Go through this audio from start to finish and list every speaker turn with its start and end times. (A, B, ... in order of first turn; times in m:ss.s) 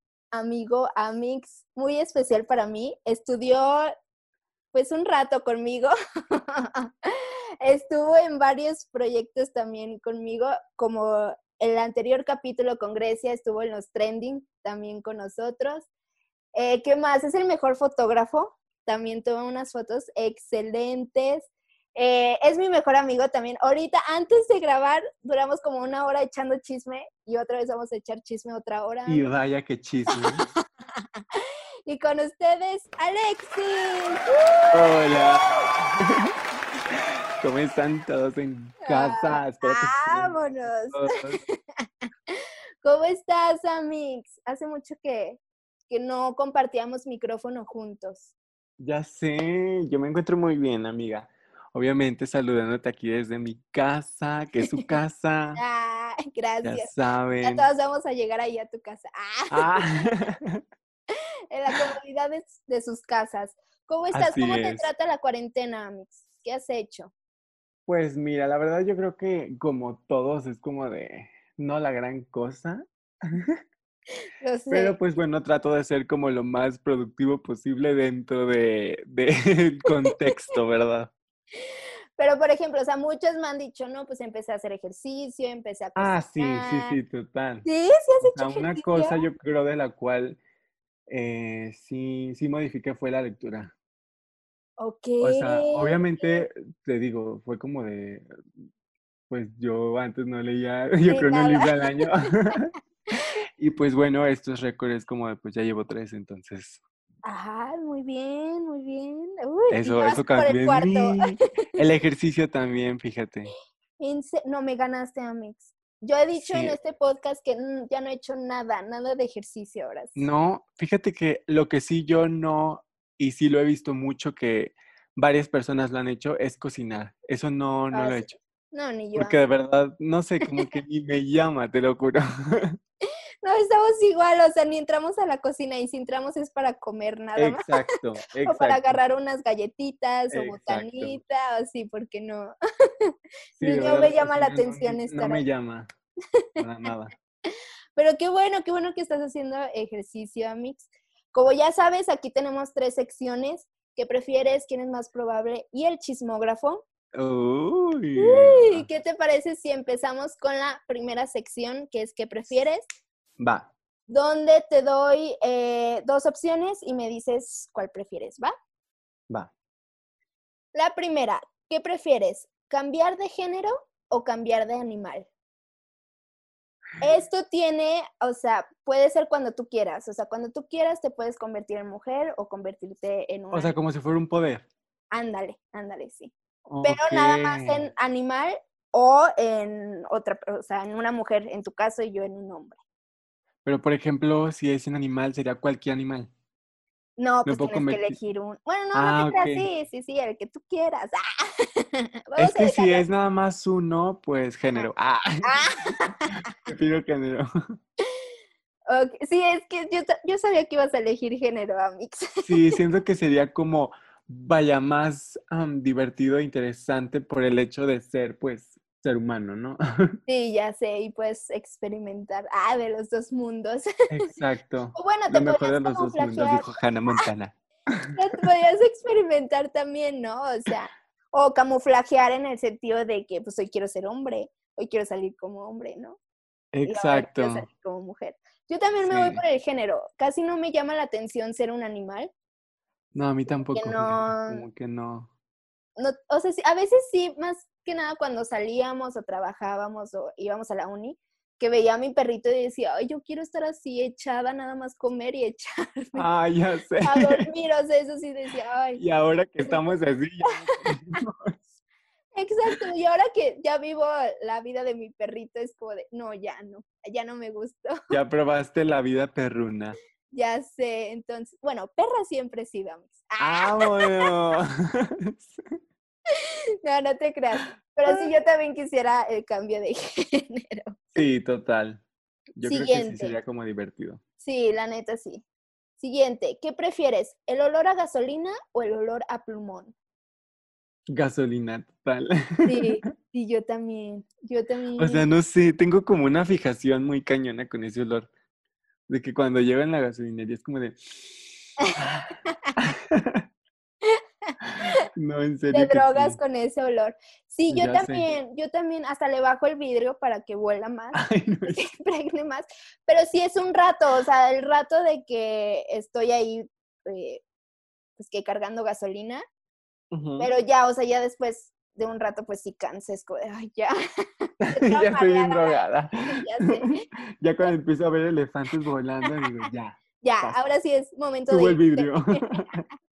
0:00.3-0:03.9 A
0:04.7-0:15.9 A
0:16.5-0:29.3 A
0:29.1-0:30.4 B
0:31.3-0:35.7 A
0:34.7-0:36.3 B
0:37.4-0:41.4 B
0:38.8-0:48.3 A
0:48.8-0:55.6 B
0:55.6-0:59.8 A
0:56.6-0:57.7 B
0:59.5-1:00.6 B
1:01.5-1:07.1 A
1:04.1-1:04.8 B
1:07.9-1:13.5 B
1:14.4-1:15.0 A
1:14.7-1:21.1 B
1:22.2-1:27.0 A
1:26.0-1:27.7 B
1:27.6-1:29.2 A
1:28.2-1:30.4 B
1:31.1-1:33.7 B
1:34.8-1:36.4 A
1:35.2-1:38.2 B
1:39.3-1:42.7 B
1:41.1-1:42.6 A
1:43.6-1:46.8 B
1:47.2-1:51.4 A
1:49.7-1:53.5 B
1:54.0-2:00.3 A
1:56.3-1:56.8 B
2:00.1-2:08.3 B
2:07.9-2:09.4 A
2:09.2-2:12.8 B
2:10.4-2:10.8 A
2:13.4-2:17.8 A
2:17.4-2:19.0 B
2:18.4-2:22.5 A
2:20.3-2:21.2 B
2:23.0-2:25.4 A
2:23.6-2:25.9 B
2:26.6-2:27.1 B
2:28.0-2:36.8 A
2:37.1-2:38.8 B
2:38.2-2:42.8 A
2:43.4-2:43.7 B
2:44.1-2:48.5 A
2:50.7-2:55.3 A
2:57.0-3:03.8 A
3:03.5-3:04.7 B
3:05.1-3:12.8 A
3:06.7-3:07.8 B
3:13.6-3:16.3 B
3:17.2-3:23.0 A
3:17.4-3:18.2 B
3:18.9-3:19.7 B
3:22.4-3:25.9 B
3:25.4-3:26.4 A
3:26.5-3:27.4 B
3:28.9-3:32.8 A
3:32.4-3:40.2 B
3:40.3-3:44.3 A
3:44.1-3:48.1 B
3:44.9-3:47.2 A
3:48.1-3:56.2 A
3:56.7-3:57.6 B
3:56.8-4:02.3 A
3:59.0-3:59.4 B
4:03.1-4:05.3 B
4:03.7-4:04.6 A
4:06.0-4:16.3 A
4:16.2-4:17.4 B
4:17.0-4:19.0 A
4:19.0-4:21.6 B
4:22.3-4:27.9 A
4:28.1-4:30.0 B
4:30.3-4:34.3 A
4:33.4-4:35.6 B
4:36.4-4:41.0 A
4:37.6-4:38.3 B
4:41.1-4:42.0 B
4:42.6-4:44.2 B
4:42.6-4:43.4 A
4:44.4-4:45.4 A
4:46.0-4:49.9 A
4:51.1-4:52.9 B
4:52.6-4:55.2 A
4:55.0-4:58.3 B
4:59.1-5:03.4 B
5:01.8-5:02.7 A
5:04.0-5:04.9 A
5:04.6-5:06.4 B
5:05.7-5:17.4 A
5:07.7-5:08.3 B
5:11.1-5:11.8 B
5:18.2-5:19.4 A
5:20.1-5:20.5 B
5:20.4-5:27.0 A
5:24.6-5:26.8 B
5:27.4-5:30.6 B
5:30.2-5:32.6 A
5:31.5-5:32.8 B